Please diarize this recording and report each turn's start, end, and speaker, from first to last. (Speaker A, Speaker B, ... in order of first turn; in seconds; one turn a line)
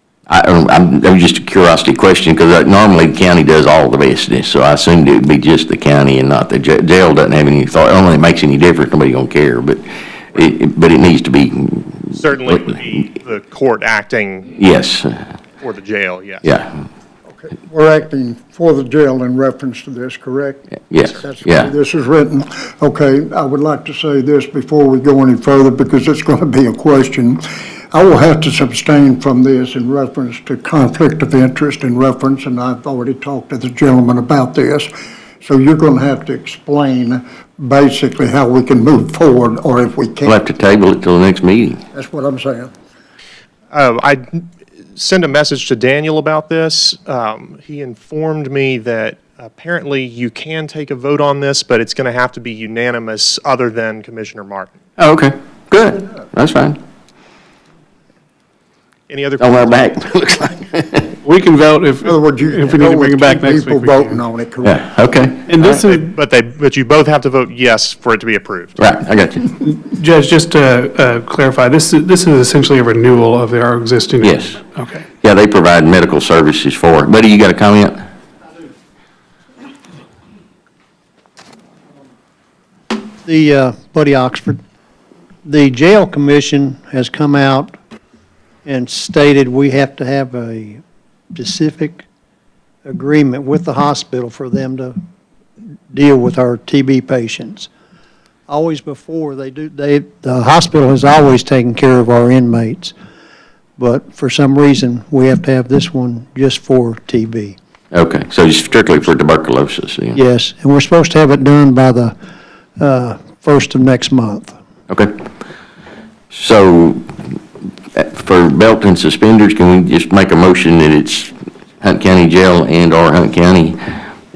Speaker A: 0.3-12.9
Speaker B: 12.1-14.5
Speaker A: 14.5-15.3
Speaker B: 15.6-16.4
Speaker A: 16.4-16.7
Speaker C: 17.3-34.9
Speaker A: 20.9-21.7
Speaker C: 35.4-40.4
Speaker A: 40.2-41.8
Speaker C: 41.9-42.7
Speaker B: 43.7-44.4
Speaker B: 45.0-54.7
Speaker A: 55.0-56.8
Speaker B: 59.1-59.7
Speaker A: 59.4-61.2
Speaker D: 61.2-64.2
Speaker C: 62.0-64.8
Speaker A: 64.6-65.5
Speaker D: 65.5-66.1
Speaker B: 65.6-68.8
Speaker A: 68.8-69.5
Speaker D: 69.6-75.0
Speaker A: 74.2-74.6
Speaker A: 75.2-78.0
Speaker E: 83.2-84.6
Speaker E: 85.4-87.8
Speaker E: 88.6-90.8
Speaker E: 91.3-92.0
Speaker E: 92.8-95.0
Speaker E: 95.9-97.7
Speaker E: 98.5-102.9
Speaker E: 103.8-107.6
Speaker A: 107.9-110.2
Speaker E: 110.1-112.2
Speaker E: 112.8-114.5
Speaker A: 116.3-117.1
Speaker A: 117.9-123.8